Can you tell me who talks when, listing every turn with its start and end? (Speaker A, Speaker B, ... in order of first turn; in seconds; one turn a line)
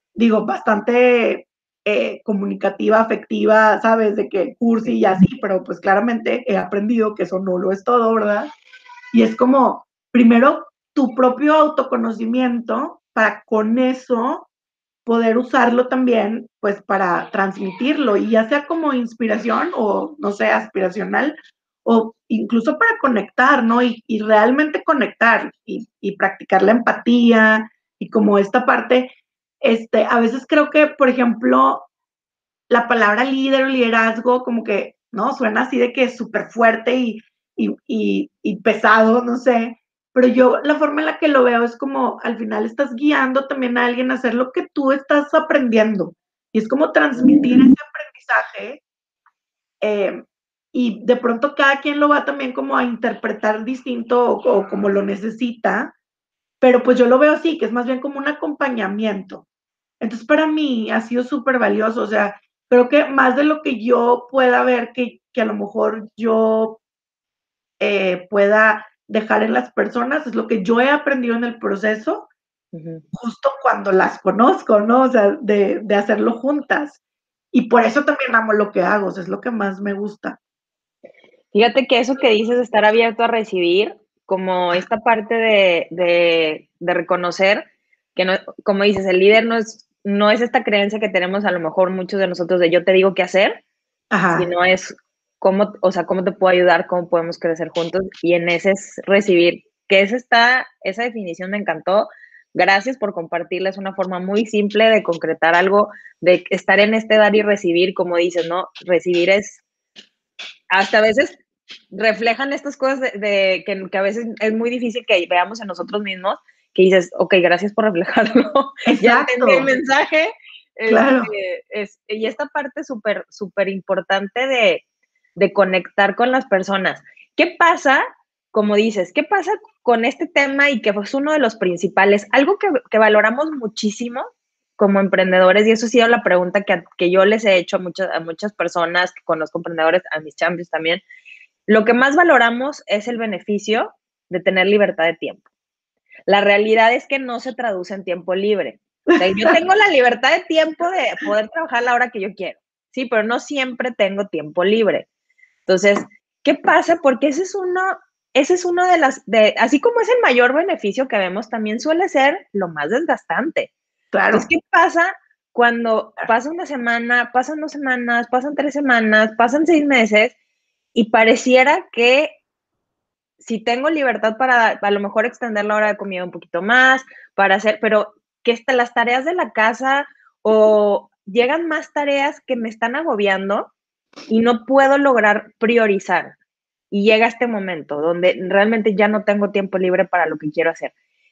Speaker A: 0.1-8.5
Speaker A: 9.1-14.5
Speaker A: 15.1-29.1
Speaker A: 29.6-31.9
Speaker A: 32.7-48.8
Speaker A: 49.8-55.9
Speaker A: 56.6-59.4
Speaker A: 60.0-66.8
Speaker A: 67.8-72.3
Speaker B: 72.7-73.0
Speaker A: 73.1-77.0
Speaker A: 77.5-80.4
Speaker B: 81.5-93.6
Speaker A: 94.1-94.5
Speaker B: 94.3-109.6
Speaker B: 110.7-124.8
Speaker A: 118.9-119.7
Speaker A: 120.9-121.3
Speaker B: 125.4-134.3
Speaker B: 134.8-141.0
Speaker B: 141.7-145.4
Speaker B: 146.3-155.1
Speaker A: 149.1-149.6
Speaker B: 155.7-163.7
Speaker A: 164.1-164.5
Speaker B: 164.3-170.3
Speaker B: 170.9-172.4
Speaker B: 173.4-183.7
Speaker B: 184.3-186.4
Speaker B: 186.9-190.9